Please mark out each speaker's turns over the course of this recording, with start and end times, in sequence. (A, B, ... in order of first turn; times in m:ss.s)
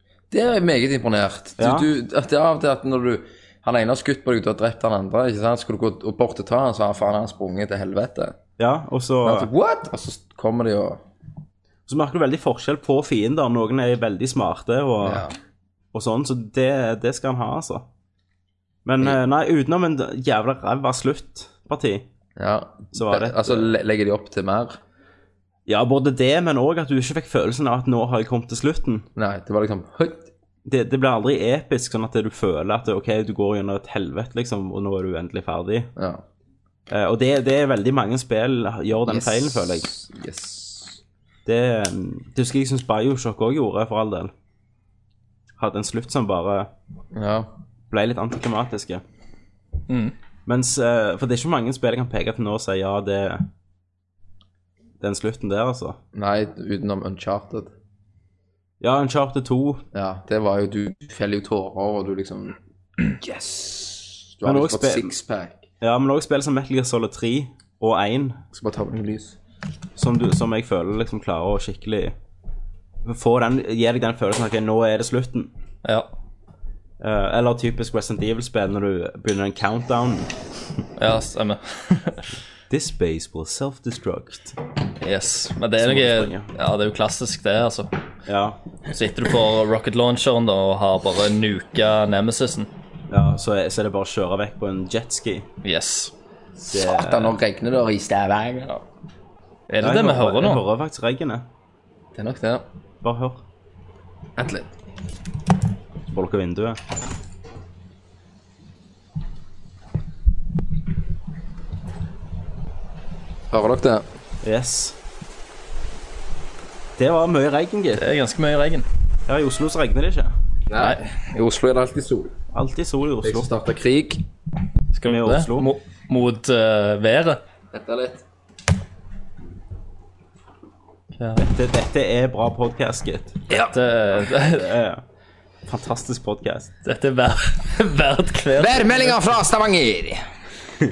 0:00.3-0:08.4 A
0:01.6-0:01.9 B
0:08.6-0:09.5 B
0:09.2-0:11.0 A
0:11.9-0:15.3 B
0:15.0-0:15.3 A
0:15.9-0:17.8 B
0:18.8-0:22.0 B
0:22.4-0:24.8 A
0:22.9-0:23.7 B
0:25.7-0:29.0 B
0:29.2-0:30.3 A
0:30.6-0:35.9 B
0:36.0-0:36.2 A
0:36.9-0:39.9 B
0:39.0-0:41.0 A
0:41.4-0:44.3 B
0:45.6-0:46.7 B
0:47.1-0:47.5 A
0:47.9-0:49.0 B
0:49.9-0:50.1 C
0:50.4-0:53.5 B
0:55.0-0:56.0 B
0:56.1-0:57.7 A
0:58.8-0:59.8 B
0:59.9-1:05.6 A
1:04.4-1:05.1 B
1:05.8-1:08.4 B
1:08.5-1:09.4 A
1:10.0-1:12.1 B
1:13.0-1:15.5 B
1:15.8-1:16.1 C
1:17.0-1:20.3 B
1:21.0-1:22.2 C
1:22.7-1:24.6 B
1:25.0-1:27.9 C
1:25.8-1:26.5 B
1:28.3-1:28.6 B
1:28.9-1:32.7 C
1:33.1-1:35.5 B
1:35.6-1:36.1 C
1:36.6-1:37.4 B
1:36.7-1:38.8 A
1:39.7-1:40.6 C
1:39.8-1:41.4 B
1:42.1-1:42.6 A
1:43.0-1:43.4 B
1:44.4-1:44.7 A
1:46.1-1:46.8 B
1:53.5-1:54.0 A
1:54.4-1:55.0 B
1:57.0-1:58.0 B
1:58.0-1:58.8 C
1:59.3-2:00.3 B
2:00.7-2:02.3 A
2:02.5-2:03.5 B
2:03.2-2:04.2 A
2:04.9-2:07.4 C
2:05.0-2:05.7 B
2:07.7-2:08.2 A
2:11.2-2:11.4 C
2:11.4-2:13.5 B
2:13.6-2:14.6 C
2:14.4-2:15.0 B
2:15.6-2:16.7 B
2:16.8-2:19.3 C
2:18.6-2:20.2 A